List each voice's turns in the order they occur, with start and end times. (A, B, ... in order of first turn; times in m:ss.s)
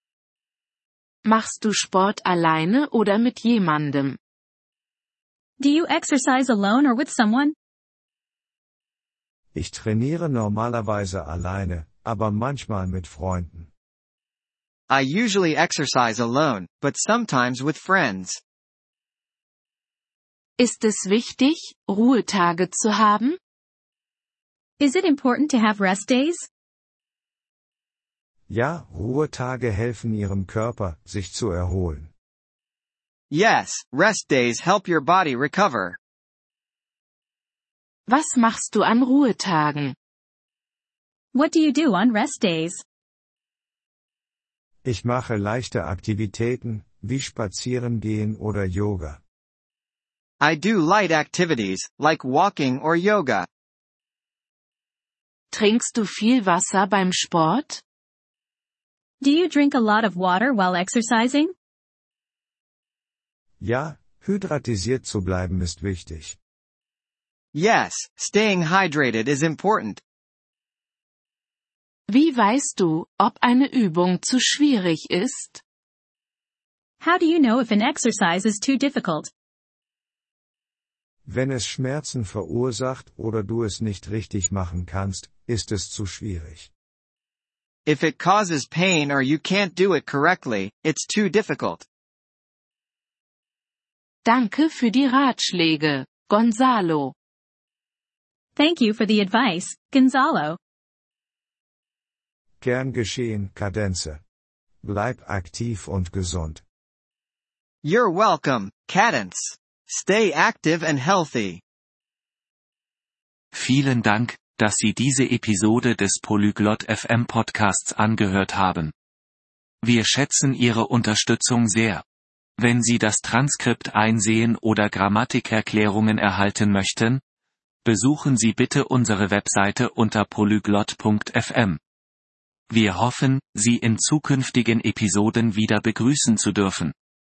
0:01.2-0:04.2 A
0:05.6-0:07.6 B
0:09.5-0:13.7 C
0:14.9-0:18.4 D
0:20.6-0:23.4 A
0:24.8-0:26.5 B
0:28.5-0:32.1 C
0:33.3-0:36.0 D
0:38.1-0:40.0 A
0:41.3-0:42.8 B
0:44.8-0:49.2 C
0:50.4-0:53.5 D
0:55.5-0:57.8 A
0:59.2-1:01.5 B
1:03.6-1:06.4 C
1:07.5-1:10.0 D
1:12.1-1:15.6 A
1:17.0-1:19.3 B
1:21.3-1:26.7 C
1:27.9-1:31.8 D
1:34.2-1:37.1 A
1:38.6-1:40.6 B
1:42.6-1:44.2 C
1:44.8-1:46.6 C
1:47.8-1:51.5 D
1:53.5-1:58.9 E
1:59.8-2:02.0 E
2:02.6-2:07.2 E
2:07.8-2:11.8 E
2:12.7-2:16.9 E